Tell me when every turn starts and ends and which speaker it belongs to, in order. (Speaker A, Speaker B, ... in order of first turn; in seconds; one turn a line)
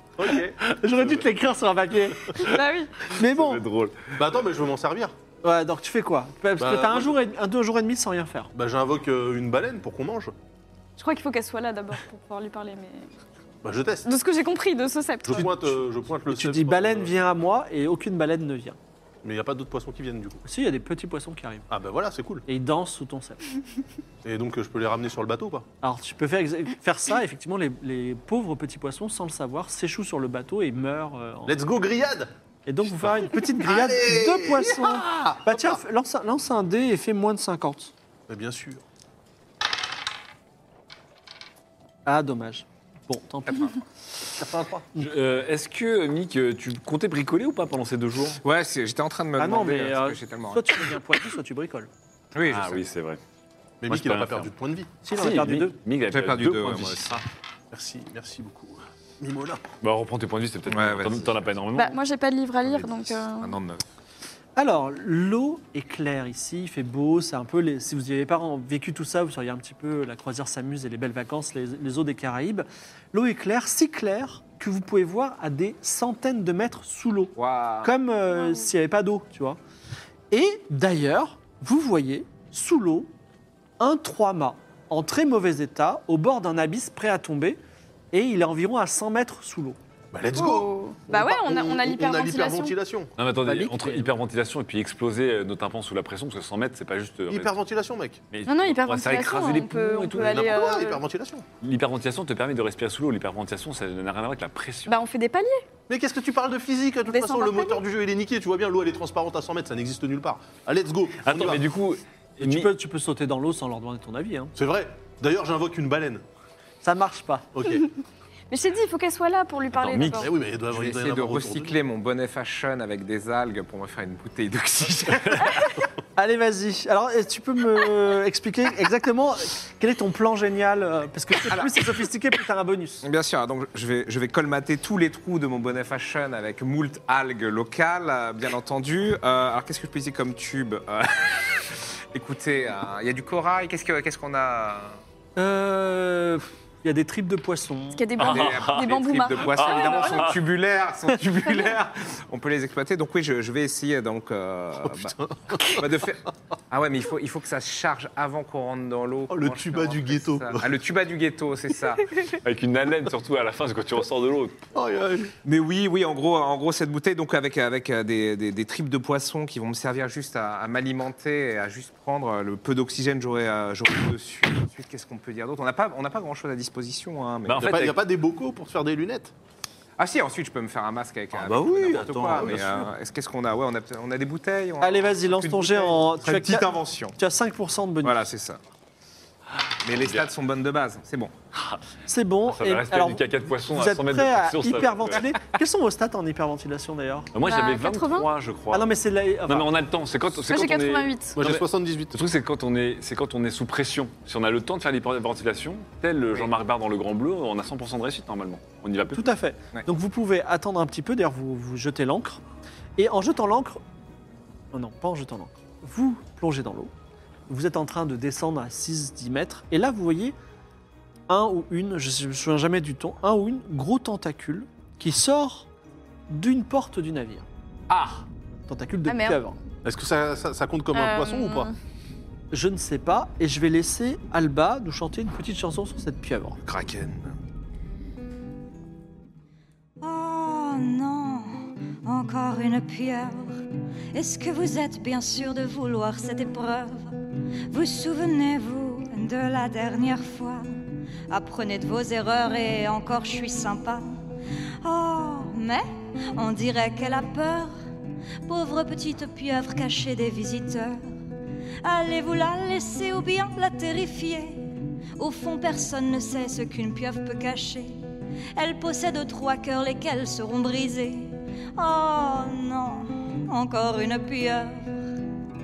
Speaker A: 0.2-0.6
Speaker B: 0.6-2.5
Speaker C: 2.4-2.9
Speaker B: 3.0-3.6
Speaker D: 3.1-4.2
Speaker A: 4.2-5.1
Speaker B: 5.4-8.5
Speaker A: 6.6-7.2
Speaker A: 8.6-10.3
Speaker C: 11.0-13.1
Speaker A: 13.6-14.1
Speaker C: 14.0-15.7
Speaker A: 15.2-17.1
Speaker B: 15.3-15.8
Speaker B: 16.3-18.8
Speaker A: 19.2-20.4
Speaker B: 20.4-21.7
Speaker A: 21.7-22.4
Speaker B: 22.5-23.4
Speaker A: 24.2-25.6
Speaker B: 25.8-31.6
Speaker A: 31.5-32.3
Speaker B: 32.7-37.9
Speaker A: 33.0-35.8
Speaker A: 38.3-38.8
Speaker B: 42.1-43.7
Speaker E: 43.5-43.8
Speaker A: 44.4-44.9
Speaker D: 45.0-48.4
Speaker E: 48.4-50.8
Speaker B: 49.4-51.9
Speaker E: 52.3-52.8
Speaker D: 52.5-53.2
Speaker A: 53.8-54.9
Speaker D: 53.9-54.5
Speaker B: 55.0-55.8
Speaker D: 55.1-57.2
Speaker E: 56.1-57.2
Speaker A: 57.7-59.6
Speaker D: 59.8-62.0
Speaker E: 60.7-61.5
Speaker C: 61.8-63.6
Speaker E: 62.6-63.8
Speaker B: 64.6-79.6
Speaker E: 77.3-78.0
Speaker C: 78.3-78.7
Speaker B: 80.3-83.1
Speaker B: 83.8-87.6
Speaker B: 88.1-89.8
Speaker A: 90.1-94.0
Speaker C: 90.3-92.8
Speaker D: 93.2-97.5
Speaker A: 97.3-98.2
Speaker D: 98.3-100.8
Speaker C: 98.5-101.0
Speaker A: 100.2-101.5
Speaker D: 101.6-105.0
Speaker C: 104.9-105.6
Speaker A: 105.9-111.6
Speaker C: 107.1-107.8
Speaker D: 111.2-112.7
Speaker B: 112.4-114.5
Speaker A: 114.6-116.2
Speaker B: 116.8-117.5
Speaker A: 117.5-117.9
Speaker C: 118.5-120.3
Speaker D: 119.7-120.3
Speaker A: 120.1-121.8
Speaker E: 120.7-125.7
Speaker B: 126.2-133.1
Speaker E: 131.5-131.8
Speaker E: 133.0-145.0
Speaker B: 145.4-148.2
Speaker C: 147.9-150.4
Speaker D: 148.2-150.4
Speaker E: 148.2-162.1
Speaker C: 151.4-151.8
Speaker A: 155.0-155.8
Speaker A: 159.3-160.8
Speaker D: 162.4-164.6
Speaker A: 164.7-165.3
Speaker E: 165.4-177.9
Speaker D: 177.4-178.0
Speaker A: 177.6-179.3
Speaker E: 180.0-187.2
Speaker D: 181.3-182.9
Speaker B: 184.8-188.2
Speaker E: 188.0-188.6
Speaker D: 189.8-190.3
Speaker E: 189.8-191.3
Speaker B: 192.1-197.3
Speaker D: 192.5-195.3
Speaker D: 197.3-199.0
Speaker C: 197.4-198.3
Speaker B: 198.7-199.7
Speaker D: 199.5-209.3
Speaker C: 200.4-201.4
Speaker A: 201.4-202.2
Speaker B: 209.1-212.4
Speaker B: 213.0-213.8
Speaker B: 214.7-216.9
Speaker B: 217.5-220.3
Speaker B: 221.3-225.7
Speaker B: 226.3-227.5
Speaker E: 227.9-228.2
Speaker B: 228.7-229.6
Speaker C: 229.1-229.4
Speaker A: 229.8-231.7
Speaker C: 230.9-231.7
Speaker B: 232.5-236.6
Speaker E: 236.7-237.3
Speaker F: 240.0-243.6
Speaker F: 244.1-250.7
Speaker F: 251.3-254.2
Speaker F: 254.8-257.7
Speaker F: 258.4-261.0
Speaker F: 261.8-268.0
Speaker F: 268.6-275.0